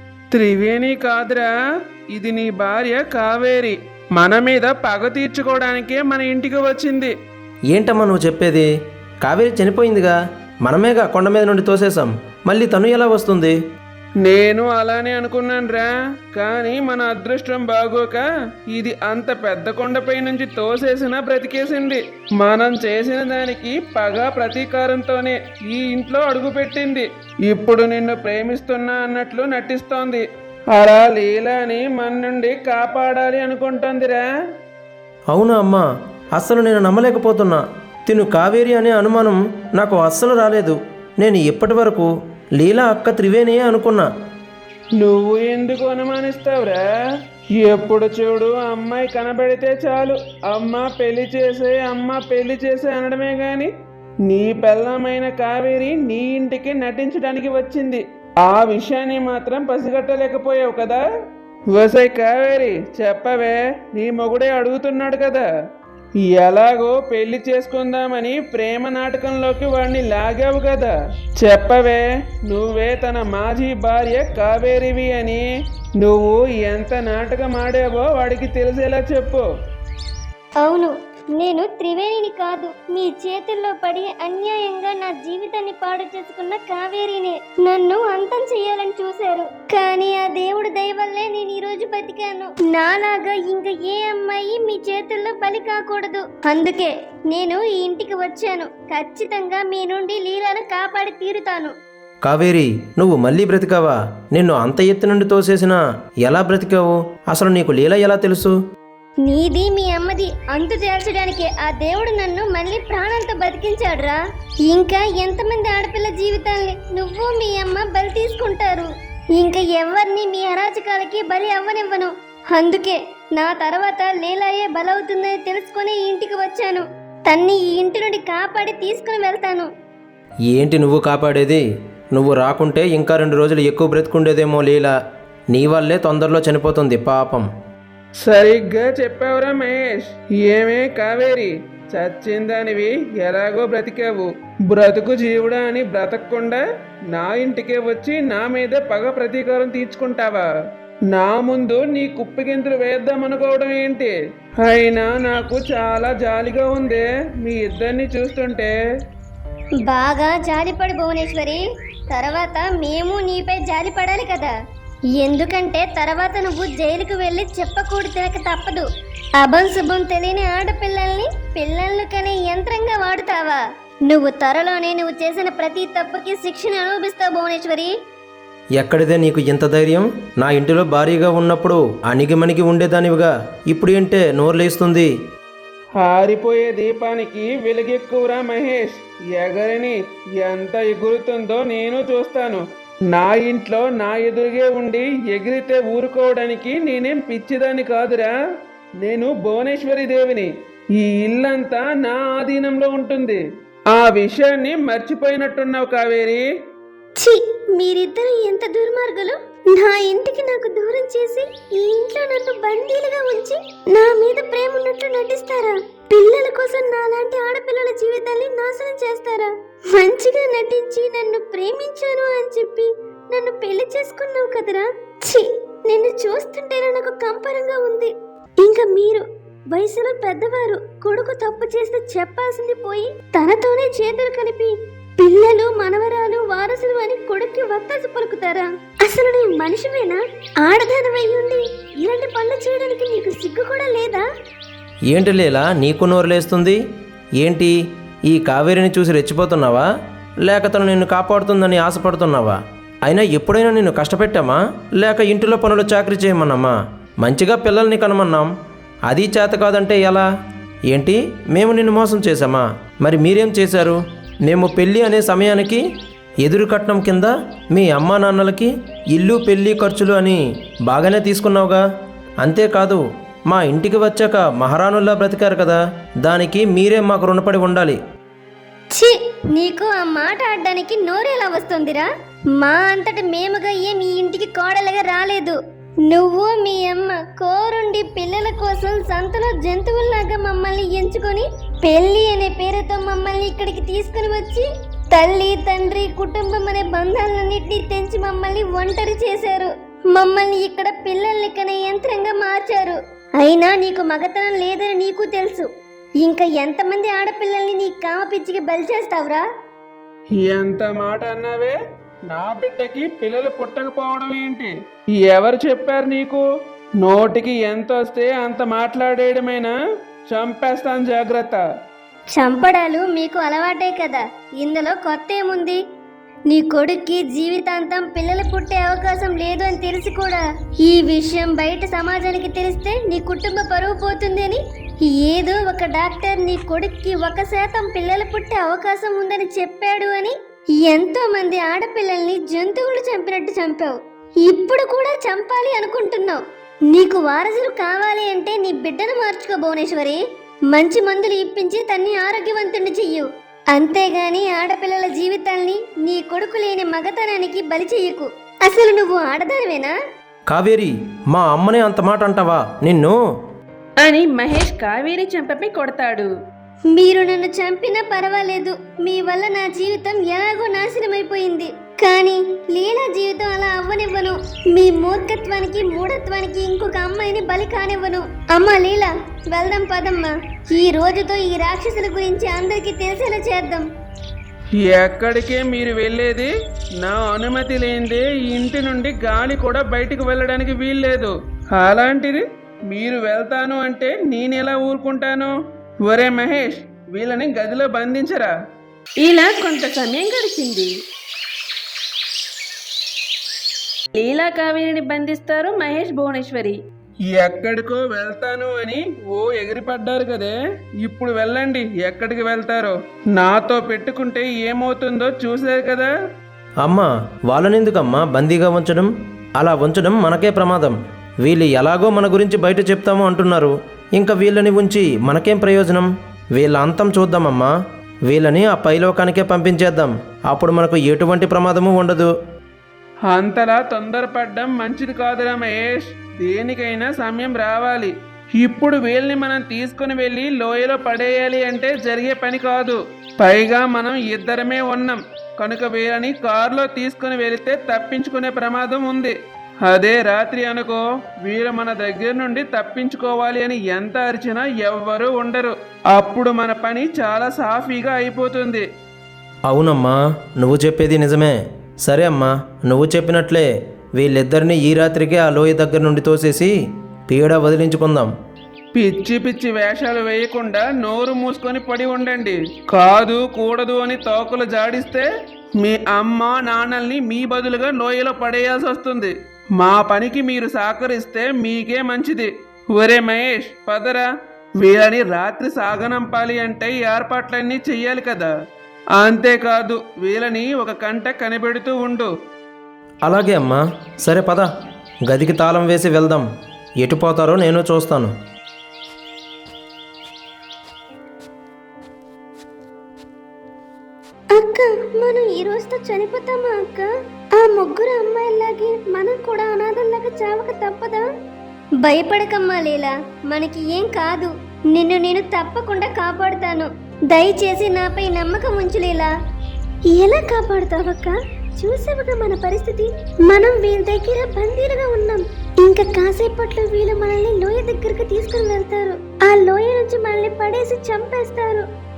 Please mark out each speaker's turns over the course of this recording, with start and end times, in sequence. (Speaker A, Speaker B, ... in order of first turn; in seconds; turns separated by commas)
Speaker A: 0.3-1.5, Speaker A: 2.1-7.1, Speaker B: 7.7-8.7, Speaker B: 9.2-13.6, Speaker A: 14.2-34.3, Speaker B: 35.3-35.8, Speaker B: 36.4-44.1, Speaker A: 45.0-46.8, Speaker A: 47.6-53.7, Speaker A: 54.3-61.0, Speaker A: 61.7-65.5, Speaker A: 66.3-75.5, Speaker A: 76.0-79.5, Speaker C: 80.6-101.7, Speaker B: 102.3-108.5, Speaker C: 109.2-129.7, Speaker B: 130.5-134.9, Speaker B: 135.5-137.5, Speaker A: 138.2-150.5, Speaker A: 151.1-158.7, Speaker C: 159.9-161.6, Speaker C: 162.1-164.5, Speaker C: 165.2-168.8, Speaker C: 169.4-177.9, Speaker B: 178.8-185.1, Speaker A: 186.0-198.3, Speaker A: 199.0-203.4, Speaker A: 203.9-206.4, Speaker C: 207.2-244.2, Speaker B: 245.1-246.8, Speaker B: 247.4-247.7, Speaker B: 248.3-249.8, Speaker B: 250.4-258.5, Speaker B: 259.1-260.3, Speaker B: 260.9-265.8, Speaker B: 266.4-271.8, Speaker B: 272.4-278.0, Speaker C: 278.9-282.1, Speaker C: 282.6-305.7, Speaker C: 306.2-309.4, Speaker A: 310.4-311.8, Speaker A: 312.3-316.4, Speaker A: 317.0-319.7, Speaker A: 320.3-321.6, Speaker C: 322.3-325.8, Speaker C: 326.5-350.2, Speaker C: 350.7-359.9, Speaker B: 360.5-363.2, Speaker D: 364.0-366.3, Speaker C: 366.9-383.9, Speaker A: 384.8-398.5, Speaker D: 399.2-400.9, Speaker D: 404.1-406.8, Speaker A: 407.3-416.1, Speaker B: 416.8-427.7, Speaker B: 428.3-432.3, Speaker A: 433.3-458.9, Speaker B: 459.7-466.7, Speaker B: 467.3-468.3, Speaker A: 468.9-475.3, Speaker A: 475.8-484.3, Speaker A: 484.8-488.5, Speaker A: 489.2-492.3, Speaker B: 493.2-494.7, Speaker B: 495.3-496.4, Speaker B: 497.0-498.3, Speaker C: 504.6-511.2, Speaker C: 512.0-519.3, Speaker C: 520.1-531.9